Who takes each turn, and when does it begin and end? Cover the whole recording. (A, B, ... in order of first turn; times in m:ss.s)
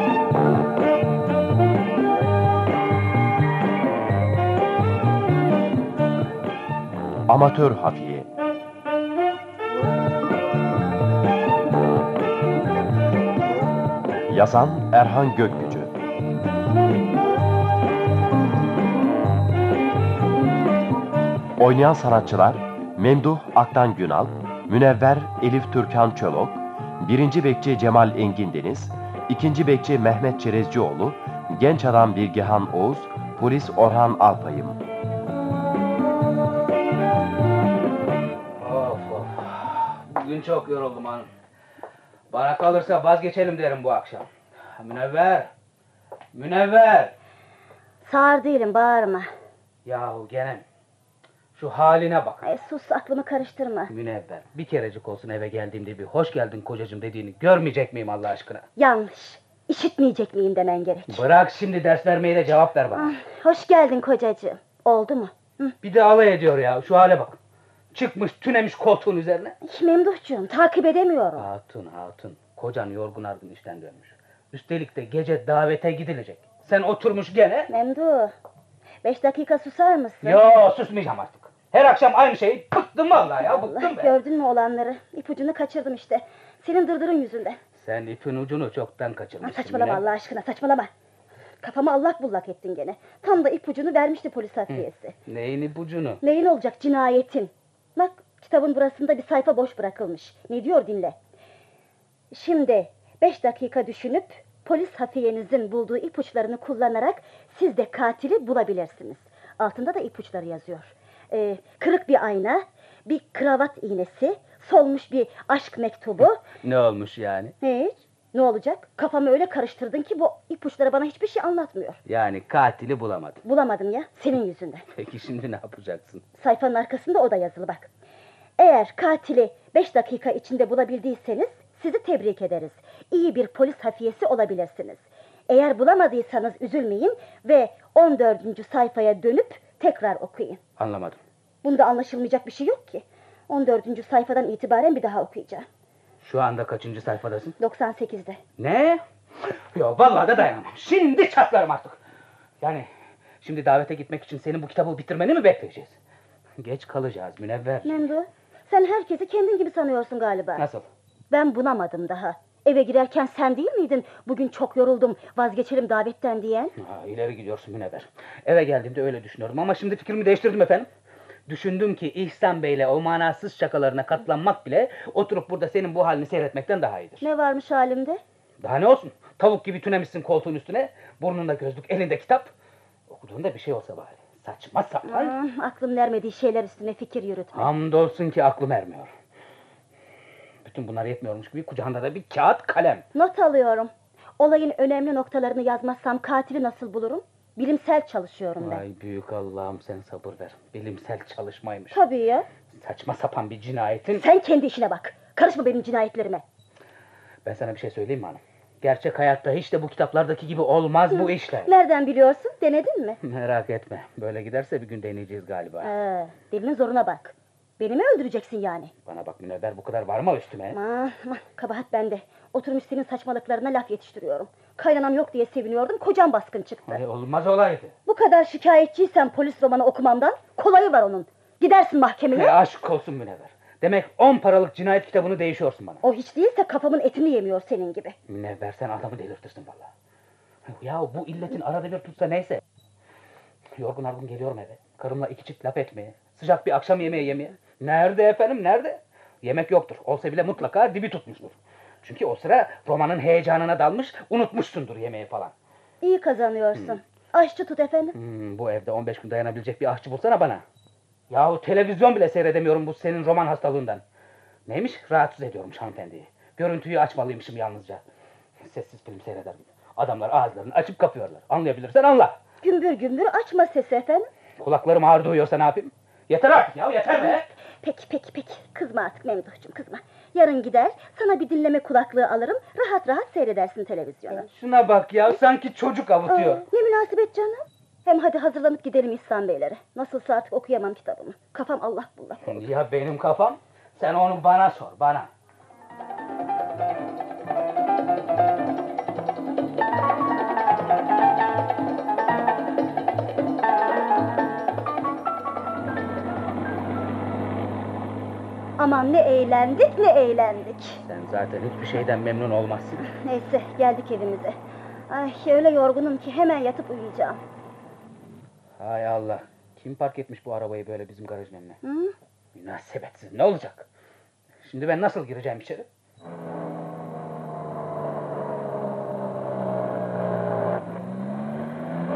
0:07.3-0:08.3 A
0:14.3-0:15.9 A
0:21.6-0:34.8 A
0:38.6-0:41.3 B
0:42.3-0:45.5 B
0:46.3-0:47.2 B
0:48.0-0:49.3 C
0:49.8-0:50.6 B
0:51.6-0:52.5 B
0:52.4-0:53.9 C
0:53.9-0:58.7 B
0:58.8-1:01.2 C
1:01.1-1:03.2 B
1:02.9-1:05.8 C
1:05.8-1:07.4 B
1:07.9-1:09.6 B
1:09.6-1:11.5 C
1:11.4-1:17.7 B
1:17.7-1:18.3 C
1:19.0-1:20.4 C
1:20.2-1:24.2 B
1:23.5-1:27.6 C
1:27.8-1:30.1 B
1:29.4-1:30.9 C
1:31.6-1:35.2 C
1:34.7-1:36.2 B
1:36.2-1:41.2 C
1:42.3-1:56.4 C
1:56.2-1:57.6 B
1:57.6-2:02.0 C
2:02.1-2:03.4 B
2:03.4-2:04.9 C
2:04.9-2:06.2 B
2:06.4-2:07.9 C
2:08.6-2:20.6 C
2:20.8-2:21.2 B
2:21.6-2:25.7 C
2:26.2-2:27.6 B
2:27.6-2:28.4 C
2:28.6-2:32.0 B
2:32.6-2:32.9 B
2:33.4-2:36.0 B
2:36.6-2:38.1 B
2:37.8-2:40.6 C
2:40.6-2:40.9 B
2:41.3-2:46.7 C
2:46.8-2:50.9 B
2:51.5-2:57.3 B
2:57.2-2:58.2 C
2:58.6-3:02.5 B
3:03.1-3:05.4 B
3:05.1-3:07.7 C
3:07.5-3:09.1 B
3:10.6-3:13.1 B
3:13.2-3:18.8 C
3:18.6-3:22.0 B
3:21.9-3:22.5 C
3:22.7-3:24.3 B
3:24.1-3:26.4 C
3:27.4-3:31.7 B
3:31.1-3:33.2 C
3:33.2-3:35.9 B
3:35.8-3:38.9 C
3:39.1-3:40.8 B
3:40.7-3:47.0 C
3:46.9-3:48.0 B
3:48.1-3:52.6 C
3:52.3-3:56.0 B
3:56.0-3:58.2 C
3:58.3-3:59.9 B
4:00.7-4:02.6 B
4:03.8-4:15.5 B
4:16.0-4:18.2 C
4:18.1-4:20.6 B
4:21.3-4:24.0 B
4:24.7-4:28.0 B
4:28.6-4:32.4 B
4:32.6-4:34.3 C
4:34.6-4:37.5 B
4:37.2-4:44.5 C
4:44.3-4:46.6 B
4:46.3-4:52.6 C
4:52.4-4:55.3 B
5:08.8-5:11.0 C
5:11.0-5:13.0 B
5:13.0-5:14.6 C
5:15.1-5:17.4 C
5:18.8-5:21.8 B
5:21.8-5:22.2 C
5:22.5-5:23.9 B
5:24.6-5:25.9 B